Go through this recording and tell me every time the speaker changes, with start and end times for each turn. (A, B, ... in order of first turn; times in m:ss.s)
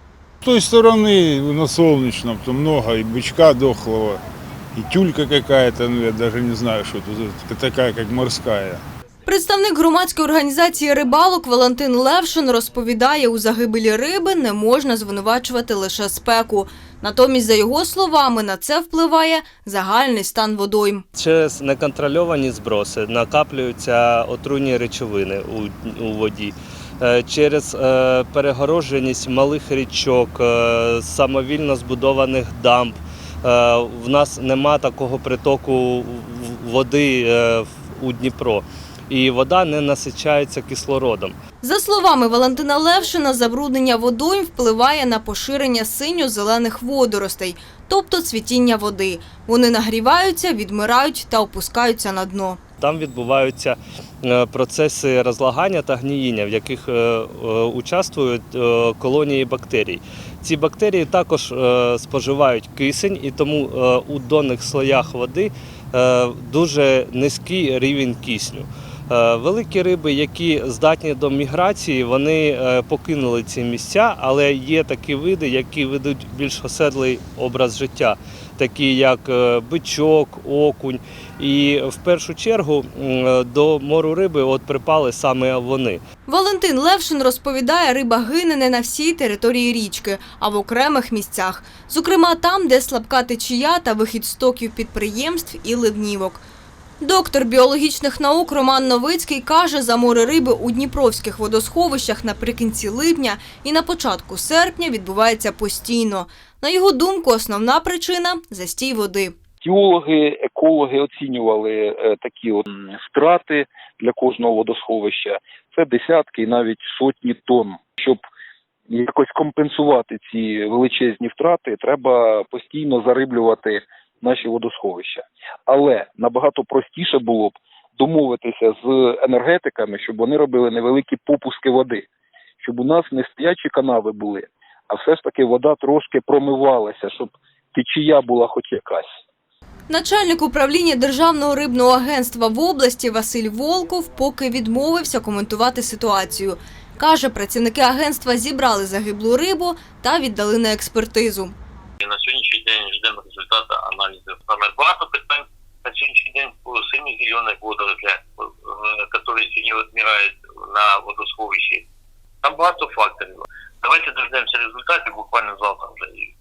0:00.4-0:04.2 A
0:04.7-0:08.8 A
0:09.3-0:21.0 B
0:21.2-0:41.4 C
0:41.6-0:52.6 B
0:52.8-1:26.0 C
1:26.3-1:36.4 B
1:37.0-1:49.4 B
1:49.6-1:58.2 D
1:58.9-2:12.0 D
2:12.6-2:19.1 D
2:19.9-2:31.5 B
2:32.0-2:41.9 E
2:42.4-2:46.3 E